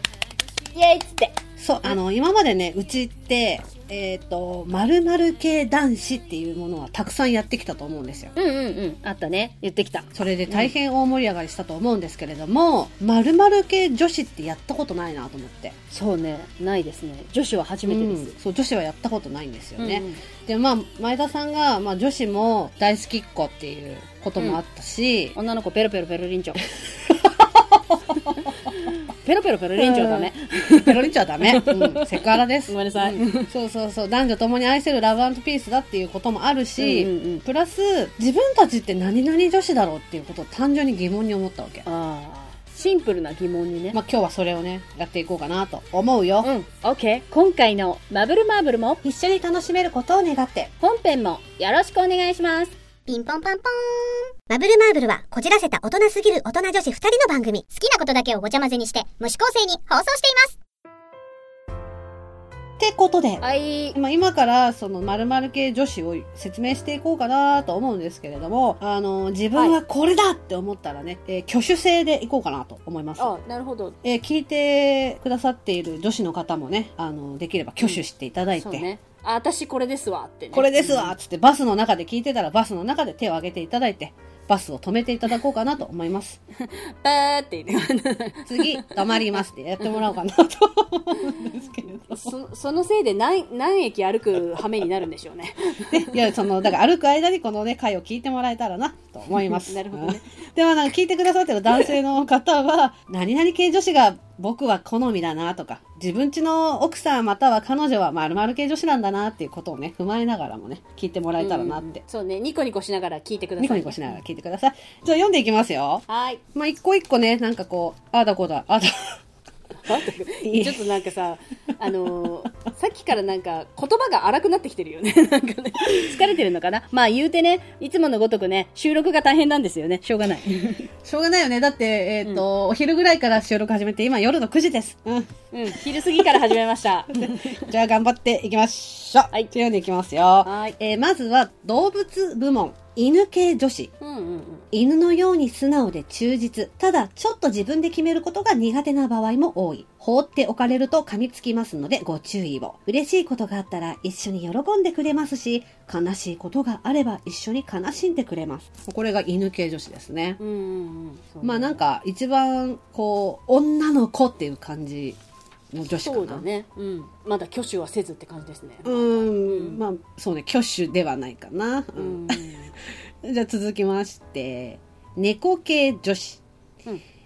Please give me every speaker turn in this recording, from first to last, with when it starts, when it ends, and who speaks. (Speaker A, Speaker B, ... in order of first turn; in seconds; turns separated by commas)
Speaker A: 0.7-1.9, Speaker B: 1.6-8.3, Speaker A: 8.4-10.7, Speaker B: 10.1-15.8, Speaker A: 15.9-18.3, Speaker B: 17.9-25.4, Speaker A: 19.8-20.2, Speaker A: 25.4-26.6, Speaker A: 28.7-33.5, Speaker B: 29.8-41.9, Speaker A: 36.8-37.4, Speaker A: 41.9-44.0, Speaker B: 43.9-46.5, Speaker A: 46.4-49.0, Speaker B: 49.0-50.7, Speaker A: 50.8-52.8, Speaker C: 53.1-60.6, Speaker B: 62.8-73.3, Speaker A: 63.4-64.0, Speaker A: 69.5-69.8, Speaker A: 73.2-74.0, Speaker B: 74.0-78.9, Speaker A: 78.6-81.1, Speaker B: 80.5-86.4, Speaker A: 86.6-90.0, Speaker B: 88.5-92.3, Speaker A: 92.0-96.2, Speaker B: 95.9-112.0, Speaker A: 99.4-100.3, Speaker A: 111.4-114.1, Speaker B: 113.6-119.2, Speaker A: 116.1-116.4, Speaker A: 119.8-130.9, Speaker B: 120.4-120.9, Speaker B: 131.0-135.3, Speaker A: 135.5-137.7, Speaker B: 137.1-143.9, Speaker A: 140.4-140.8, Speaker A: 144.0-144.7, Speaker B: 144.7-160.4, Speaker A: 160.4-161.8, Speaker B: 161.4-165.2, Speaker B: 165.7-166.4, Speaker A: 165.9-169.8, Speaker B: 168.8-172.5, Speaker A: 172.0-172.7, Speaker B: 173.2-176.4